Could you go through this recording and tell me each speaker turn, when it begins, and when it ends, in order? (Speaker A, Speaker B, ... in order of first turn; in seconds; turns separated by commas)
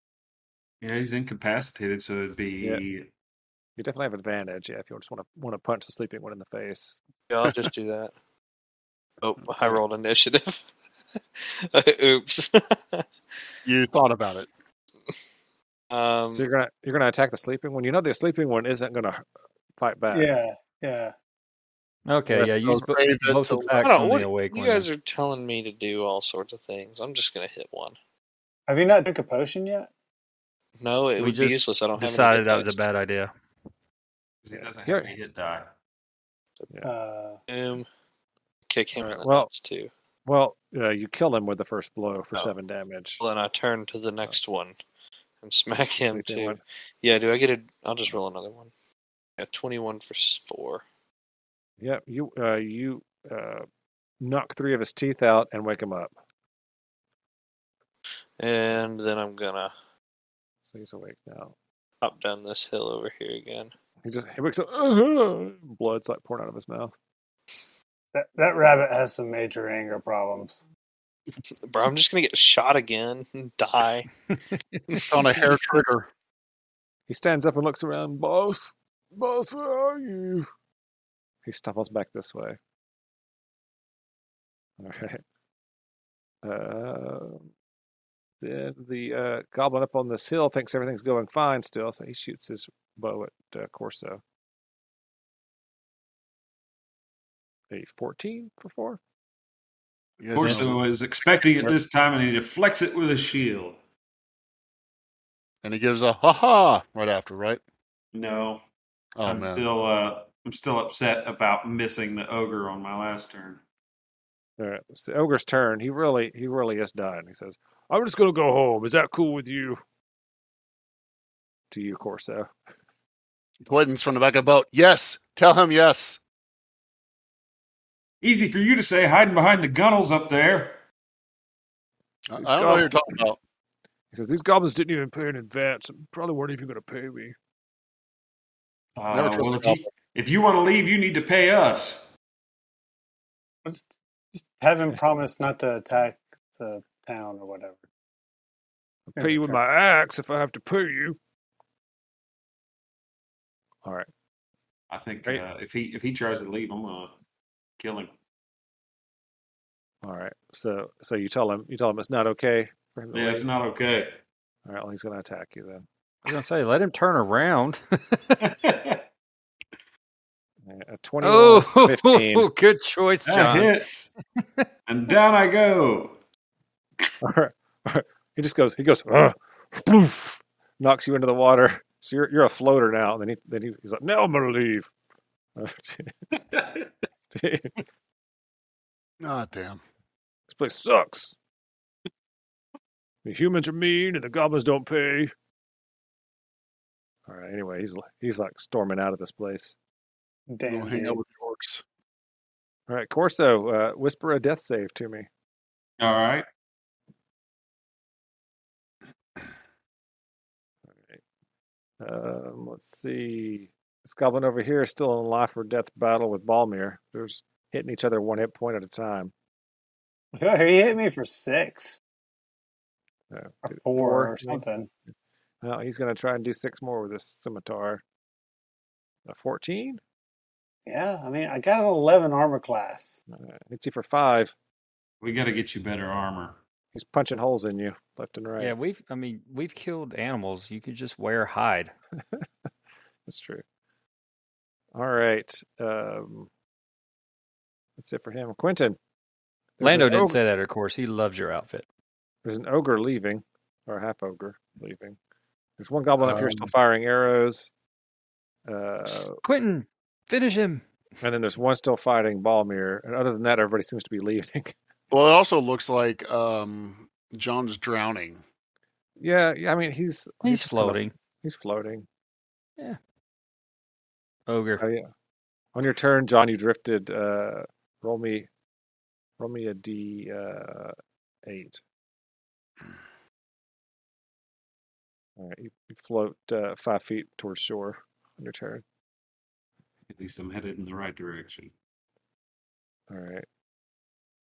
Speaker A: 0.8-3.1, Speaker B: 3.8-7.0, Speaker C: 7.3-8.1, Speaker C: 9.2-10.7, Speaker D: 9.4-9.8, Speaker C: 11.4-13.1, Speaker D: 13.6-14.5, Speaker C: 15.9-16.5, Speaker B: 16.3-20.3, Speaker E: 20.1-21.1, Speaker F: 22.1-24.9, Speaker D: 22.3-23.9, Speaker C: 23.7-27.9, Speaker E: 28.7-29.9, Speaker C: 30.8-32.9, Speaker F: 31.2-33.3, Speaker A: 34.4-35.7, Speaker B: 34.5-35.1, Speaker E: 36.8-37.4, Speaker C: 37.5-37.9, Speaker C: 38.7-39.9, Speaker B: 39.0-39.5, Speaker B: 40.2-43.2, Speaker C: 43.2-44.8, Speaker C: 45.4-48.7, Speaker B: 46.0-46.6, Speaker C: 49.4-50.8, Speaker B: 51.8-53.7, Speaker B: 54.2-56.1, Speaker C: 58.4-59.7, Speaker B: 60.6-61.5, Speaker C: 62.0-63.7, Speaker B: 64.0-66.9, Speaker E: 68.1-70.6, Speaker C: 71.6-74.1, Speaker F: 74.3-74.8, Speaker D: 75.0-76.1, Speaker B: 77.1-80.5, Speaker B: 81.4-82.6, Speaker B: 84.8-85.2, Speaker B: 86.4-87.5, Speaker B: 88.4-94.2, Speaker B: 97.7-99.0, Speaker D: 100.2-100.8, Speaker A: 100.3-103.8, Speaker D: 105.6-107.6, Speaker A: 108.1-108.6, Speaker D: 109.2-109.6, Speaker A: 109.2-113.6, Speaker B: 114.6-119.8, Speaker B: 121.7-122.5, Speaker D: 123.6-126.2, Speaker A: 128.2-130.8, Speaker D: 132.3-133.4, Speaker B: 132.4-133.2, Speaker B: 134.1-137.3, Speaker A: 139.0-142.0, Speaker D: 139.1-139.8, Speaker E: 143.6-147.8, Speaker B: 149.1-151.2, Speaker E: 149.2-149.6, Speaker A: 154.9-157.1, Speaker A: 157.8-158.1, Speaker B: 160.0-163.5, Speaker A: 163.1-164.2, Speaker B: 164.6-165.8, Speaker F: 166.2-168.5, Speaker A: 168.4-169.0, Speaker B: 170.6-172.5, Speaker F: 171.2-173.8, Speaker A: 173.2-174.1, Speaker F: 174.4-174.7, Speaker A: 174.9-176.2, Speaker B: 177.2-184.9, Speaker B: 185.5-186.1, Speaker A: 186.5-186.9, Speaker B: 187.3-187.8, Speaker D: 189.2-189.8, Speaker B: 190.5-191.3, Speaker B: 193.2-195.3, Speaker B: 197.2-199.8, Speaker E: 200.5-201.2, Speaker D: 200.7-201.8, Speaker B: 202.9-205.3, Speaker A: 206.0-206.4, Speaker B: 210.9-211.2, Speaker B: 212.0-219.3, Speaker E: 220.3-222.0, Speaker B: 223.3-224.6, Speaker E: 223.7-224.9, Speaker B: 225.6-228.0, Speaker B: 229.2-230.0, Speaker E: 230.8-233.2, Speaker B: 233.3-234.5, Speaker A: 235.2-236.6, Speaker B: 236.9-238.7, Speaker F: 238.6-241.9, Speaker B: 242.2-242.7, Speaker B: 243.2-243.6, Speaker B: 244.9-246.5, Speaker B: 248.0-249.0, Speaker B: 249.8-250.4, Speaker F: 249.8-251.8, Speaker B: 252.4-255.2, Speaker B: 255.8-257.7, Speaker D: 256.2-256.7, Speaker B: 258.6-259.4, Speaker F: 259.4-260.8, Speaker B: 261.2-264.8, Speaker D: 265.1-268.4, Speaker B: 269.2-272.1, Speaker F: 270.4-271.1, Speaker F: 274.5-274.8, Speaker B: 274.8-275.1, Speaker B: 275.7-278.5, Speaker B: 279.4-281.8, Speaker B: 285.4-288.8, Speaker A: 290.1-291.7, Speaker B: 293.1-293.4